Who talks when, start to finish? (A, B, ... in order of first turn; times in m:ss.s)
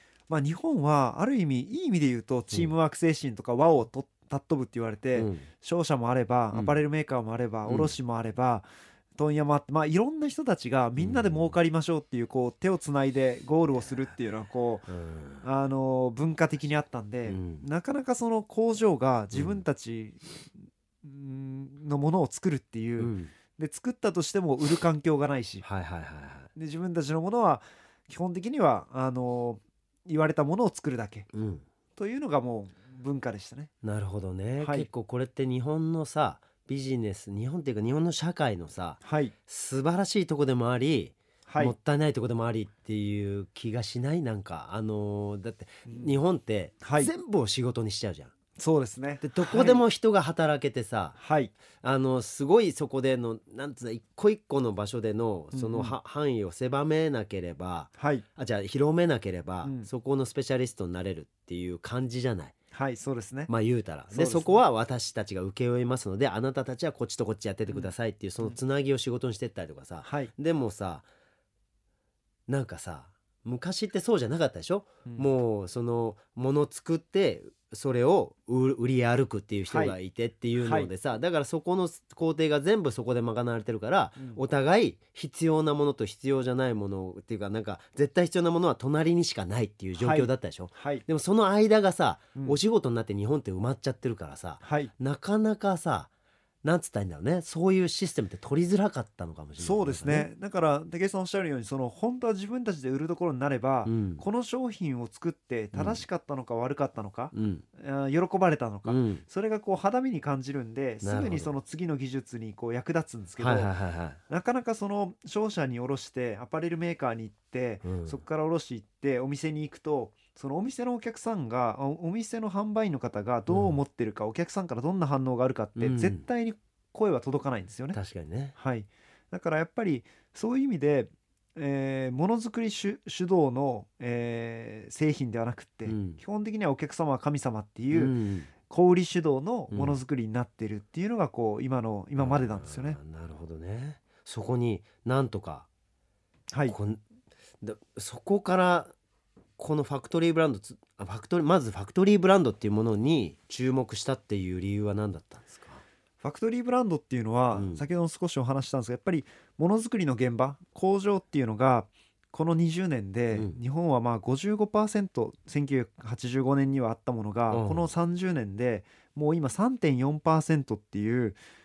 0:00.3-0:14.9 A
0:05.2-0:05.4 B
0:06.5-0:06.8 B
0:07.6-0:08.0 B
0:11.0-0:11.5 B
0:14.9-0:15.4 B
0:15.4-0:20.4 A
0:17.2-0:17.6 B
0:19.3-0:19.6 B
0:21.0-0:25.6 A
0:23.0-0:23.3 B
0:25.6-0:26.5 B
0:26.5-0:31.3 A
0:31.3-0:31.6 B
0:32.0-0:33.7 A
0:33.8-0:48.3 B
0:34.6-0:34.9 A
0:39.0-0:39.3 A
0:41.5-0:41.7 A
0:45.9-0:46.1 A
0:46.8-0:47.1 A
0:48.6-0:49.8 A
0:49.2-0:51.2 B
0:51.2-0:51.5 A
0:51.8-1:02.5 B
0:55.5-0:55.9 A
0:58.0-0:58.2 A
0:59.6-0:59.9 A
1:02.7-1:03.5 A
1:03.5-1:11.0 B
1:04.1-1:04.6 A
1:10.0-1:10.3 A
1:12.5-1:36.1 B
1:19.7-1:20.0 A
1:20.6-1:20.9 A
1:30.0-1:31.0 A
1:34.6-1:34.9 A
1:36.6-1:40.3 B
1:39.6-1:53.7 A
1:43.8-1:44.2 B
1:45.7-1:46.0 B
1:47.3-1:47.6 B
1:48.8-1:49.2 B
1:51.0-1:51.5 B
1:53.4-1:54.2 B
1:54.3-2:08.0 A
1:57.8-1:58.2 B
2:03.5-2:03.8 B
2:05.8-2:06.2 B
2:07.9-2:08.5 B
2:08.5-2:18.1 A
2:15.8-2:16.2 B
2:17.9-2:18.5 B
2:18.6-2:23.0 A
2:19.7-2:20.0 B
2:22.2-2:25.7 B
2:26.5-2:26.8 A
2:26.7-2:27.0 B
2:27.6-2:28.9 B
2:29.6-2:35.8 B
2:36.2-2:51.4 A
2:37.5-2:37.8 B
2:43.3-2:43.6 B
2:47.5-2:47.9 B